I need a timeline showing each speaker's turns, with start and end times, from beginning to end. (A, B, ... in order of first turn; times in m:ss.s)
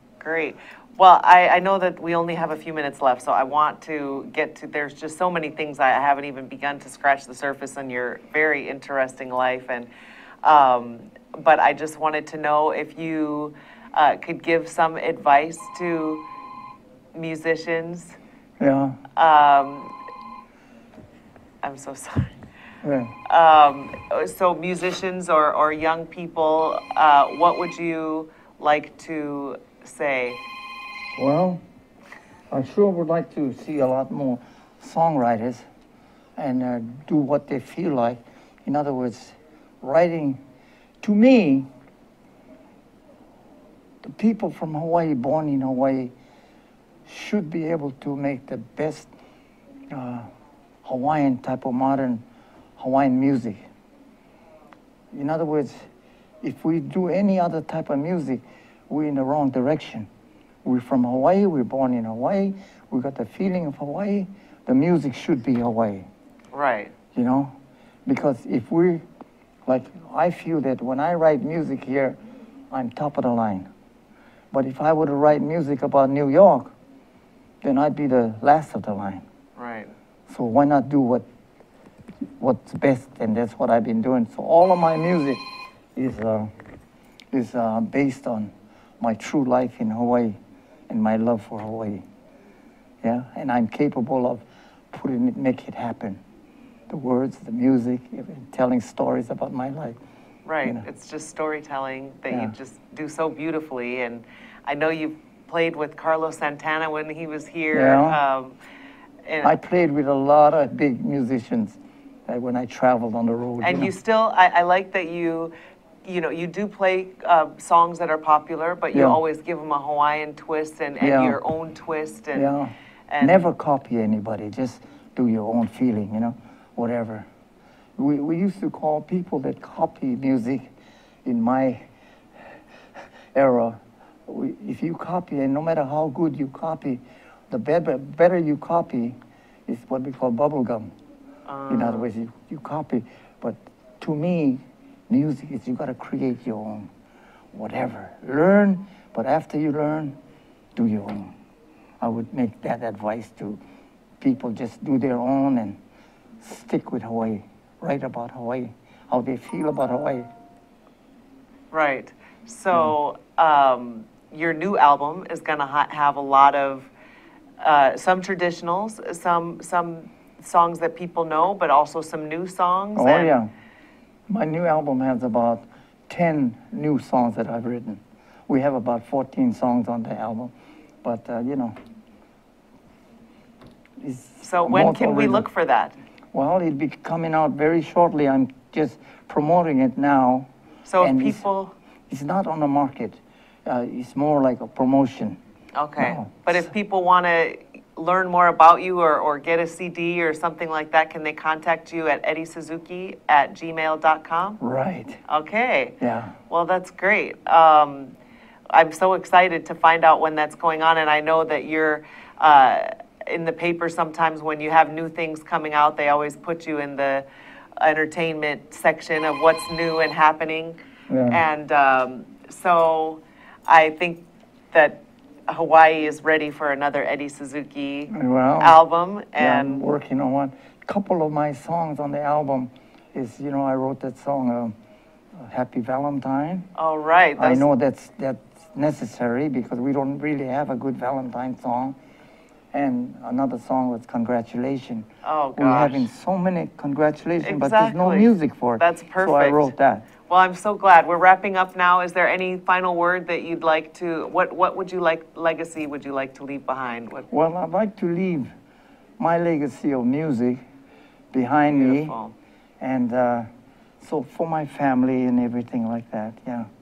0:00.2-0:09.9 A
0:10.4-0:16.2 A
0:17.1-0:18.2 A
0:18.6-0:19.0 B
0:19.2-0:19.9 A
0:21.6-0:22.4 A
0:22.8-0:23.1 B
0:23.3-0:30.4 A
0:31.1-0:31.6 B
0:32.5-0:35.7 B
0:36.4-0:40.4 B
0:41.0-0:41.7 B
0:44.0-0:46.1 B
0:47.1-0:49.1 B
0:49.9-0:50.3 B
0:50.8-0:52.2 B
0:52.8-0:53.6 B
0:55.1-0:55.9 B
0:56.4-1:00.1 B
1:00.6-1:06.1 B
1:06.5-1:06.9 A
1:07.1-1:07.6 B
1:08.1-1:09.0 B
1:09.7-1:12.2 B
1:12.7-1:13.7 B
1:14.5-1:16.7 B
1:17.6-1:19.2 B
1:19.6-1:19.9 A
1:20.3-1:21.2 B
1:22.4-1:25.4 B
1:26.0-1:26.5 B
1:27.3-1:30.4 B
1:30.9-1:32.0 B
1:33.0-1:36.2 B
1:36.9-1:40.0 B
1:40.4-1:48.6 A
1:42.3-1:42.6 B
1:47.7-1:48.2 B
1:49.2-1:49.5 A
1:49.4-1:53.9 B
1:53.6-1:55.5 A
1:56.0-2:02.6 A
1:58.9-1:59.2 B
2:01.0-2:01.4 B
2:02.3-2:07.3 B
2:03.1-2:03.4 A
2:08.0-2:10.7 B
2:11.2-2:11.9 B
2:13.3-2:20.9 B
2:21.5-2:22.1 A
2:21.7-2:26.9 B
2:27.5-2:30.2 B
2:30.8-2:31.3 B
2:32.0-2:33.6 B
2:34.2-2:35.8 B
2:36.4-2:40.3 B
2:41.7-2:46.9 A
2:47.6-2:53.4 A
2:53.0-2:53.5 B
2:54.3-3:01.8 B
3:04.0-3:05.5 B
3:04.4-3:06.0 A
3:06.3-3:10.5 B
3:10.9-3:11.7 A
3:11.0-3:11.4 B
3:12.1-3:15.4 B
3:15.8-3:24.6 A
3:16.0-3:16.7 B
3:24.6-3:25.2 B
3:25.3-3:26.0 A
3:26.0-3:26.4 B
3:26.5-3:28.1 A
3:28.7-3:37.2 A
3:37.8-3:40.8 A
3:41.1-3:41.4 B
3:41.3-3:49.9 A
3:48.1-3:48.8 B
3:49.4-3:54.8 B
3:55.4-3:56.7 B
3:56.8-3:57.7 A
3:57.4-4:02.0 B
4:02.7-4:10.1 B
4:05.2-4:06.1 A
4:07.4-4:09.7 A
4:10.3-4:17.3 A
4:17.3-4:18.5 B
4:19.2-4:20.6 B
4:21.3-4:22.2 B
4:21.7-4:22.3 A
4:22.8-4:23.5 B
4:24.0-4:26.7 B